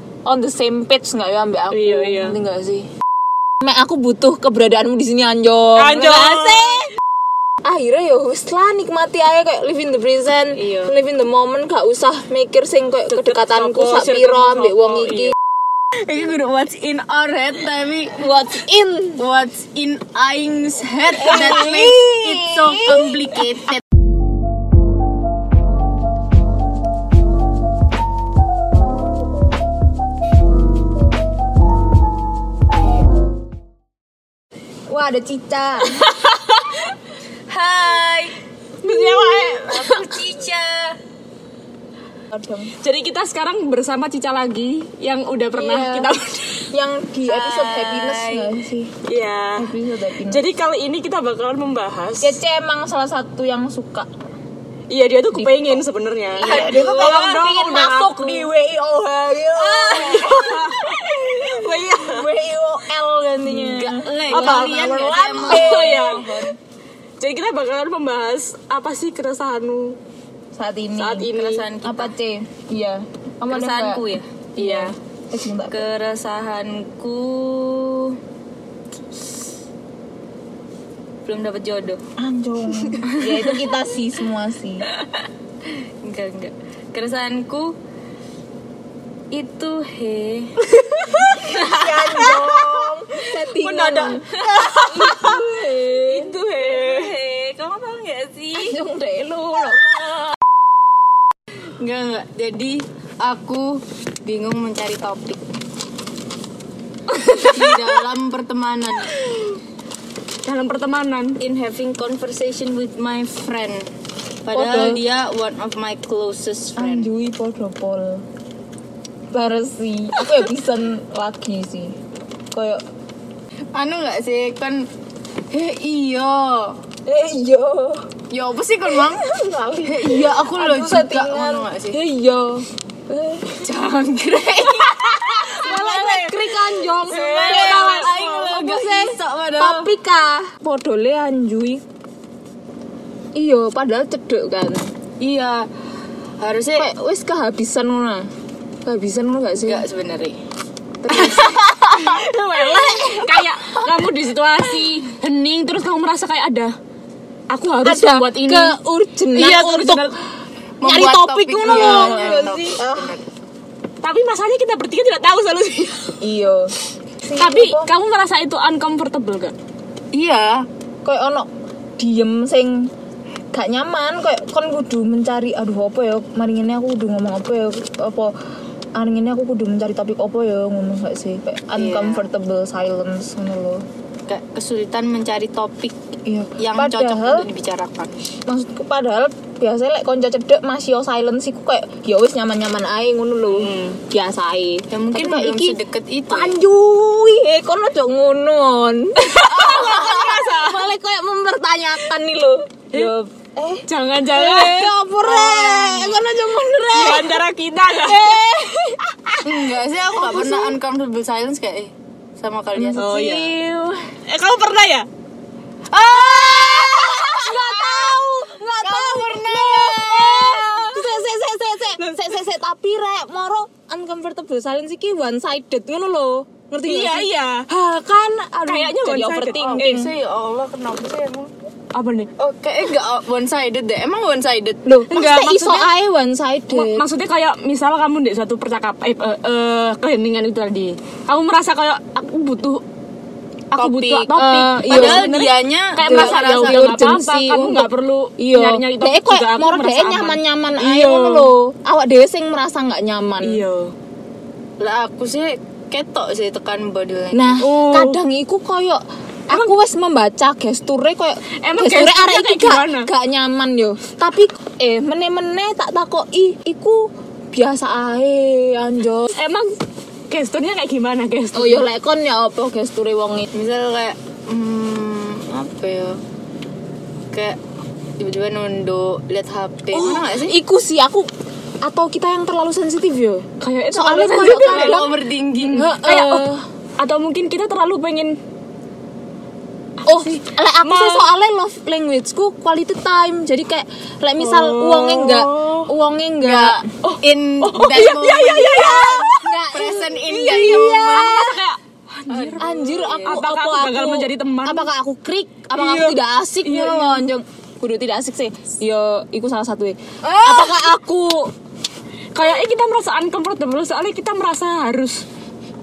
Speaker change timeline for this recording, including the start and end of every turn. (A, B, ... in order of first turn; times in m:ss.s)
0:00.3-0:02.9 A
0:01.7-0:02.4 B
0:03.6-0:06.9 A
0:05.8-0:06.9 B
0:07.6-0:15.3 A
0:10.6-0:10.9 B
0:13.1-0:15.3 B
0:16.0-0:18.2 C
0:18.2-0:19.2 A
0:19.2-0:23.8 C
0:21.2-0:23.4 A
0:34.9-0:36.2 A
0:37.5-0:38.4 C
0:38.8-0:40.2 B
0:38.9-0:39.2 A
0:39.5-0:41.0 C
0:42.3-0:42.8 A
0:42.8-0:46.7 B
0:45.5-0:46.2 A
0:46.7-0:48.9 A
0:47.2-0:48.6 C
0:49.1-0:49.7 B
0:49.6-0:50.4 A
0:50.3-0:52.4 B
0:52.2-0:54.1 A
0:54.9-0:58.5 B
0:55.4-0:55.8 A
0:56.4-1:06.5 A
0:56.4-0:57.5 C
0:59.6-1:02.3 B
1:00.0-1:00.2 C
1:03.6-1:06.5 C
1:04.3-1:06.3 B
1:07.2-1:10.0 B
1:10.6-1:15.8 A
1:11.0-1:11.7 B
1:11.2-1:12.1 C
1:13.5-1:14.2 C
1:14.6-1:15.0 B
1:15.7-1:18.2 C
1:21.2-1:22.0 C
1:22.2-1:24.9 A
1:23.0-1:23.7 C
1:26.0-1:27.8 C
1:29.3-1:30.6 C
1:30.8-1:32.6 B
1:31.2-1:36.3 A
1:31.5-1:32.9 C
1:33.4-1:35.5 B
1:36.1-1:37.2 B
1:36.4-1:38.8 C
1:38.6-1:40.3 A
1:41.8-1:45.4 C
1:47.1-1:47.8 B
1:47.4-1:49.2 C
1:50.4-1:51.4 B
1:51.4-1:53.9 C
1:54.4-1:57.1 C
1:54.5-1:55.0 A
1:56.8-1:58.2 A
1:59.3-2:02.0 A
2:02.5-2:02.8 A
2:03.7-2:04.9 C
2:05.5-2:06.8 C
2:07.1-2:08.1 A
2:08.3-2:09.3 C
2:08.9-2:13.6 A
2:09.8-2:12.0 C
2:13.6-2:16.5 C
2:15.4-2:21.8 A
2:15.6-2:18.2 B
2:17.1-2:19.9 C
2:23.4-2:24.9 A
2:25.2-2:25.7 C
2:26.4-2:26.9 C
2:26.8-2:28.3 A
2:28.8-2:29.8 A
2:29.6-2:30.4 C
2:31.0-2:32.2 C
2:31.1-2:33.4 A
2:31.1-2:36.8 B
2:37.5-2:38.8 B
2:37.8-2:40.1 A
2:39.3-2:40.1 B
2:40.8-2:43.2 C
2:40.8-2:43.1 A
2:41.6-2:42.4 B
2:44.0-2:46.2 B
2:46.2-2:47.9 A
2:47.4-2:49.6 B
2:50.1-2:50.7 C
2:51.0-2:52.9 A
2:53.5-2:58.4 A
2:59.0-3:03.8 A
3:01.8-3:02.3 C
3:04.3-3:06.0 C
3:06.2-3:07.5 A
3:06.6-3:08.1 C
3:08.5-3:15.8 A
3:13.5-3:14.0 B
3:14.9-3:16.6 C
3:16.3-3:30.7 A
3:19.2-3:20.9 B
3:23.9-3:24.9 B
3:25.3-3:26.2 C
3:26.9-3:28.4 B
3:29.4-3:33.3 C
3:32.8-3:34.0 A
3:33.0-3:33.6 B
3:34.3-3:35.1 B
3:35.9-3:40.7 C
3:36.0-3:50.1 A
3:40.0-3:41.2 B
3:46.8-3:47.7 B
3:48.7-3:50.0 B
3:49.5-3:51.5 C
3:51.9-3:52.3 B
3:52.4-3:54.8 C
3:54.8-3:57.0 A
3:55.1-3:55.9 B
3:56.7-4:02.8 B
4:03.7-4:11.5 B
4:03.8-4:05.3 A
4:04.9-4:06.9 C
4:06.0-4:13.6 A
4:13.4-4:13.9 B
4:14.8-4:17.6 C
4:17.3-4:29.4 A
4:17.6-4:18.2 B
4:21.6-4:23.1 B
4:29.4-4:29.8 B
4:30.3-4:31.9 B
4:31.5-4:33.5 A
4:33.5-4:36.2 C
4:37.3-4:37.6 C
4:38.2-4:40.6 C
4:39.9-4:41.3 A
4:41.8-4:46.6 A
4:43.6-4:45.2 B
4:44.4-4:45.9 C
4:45.7-4:46.5 B
4:47.0-4:48.4 B
4:50.1-4:56.9 A
4:50.1-4:51.3 B
4:54.4-4:55.9 B
4:56.4-5:01.6 C
4:57.0-4:59.5 B
4:59.3-5:01.6 A
5:00.4-5:04.9 B
5:02.3-5:03.4 C
5:02.6-5:11.5 A
5:05.8-5:07.2 B
5:10.2-5:10.8 C
5:12.3-5:15.2 B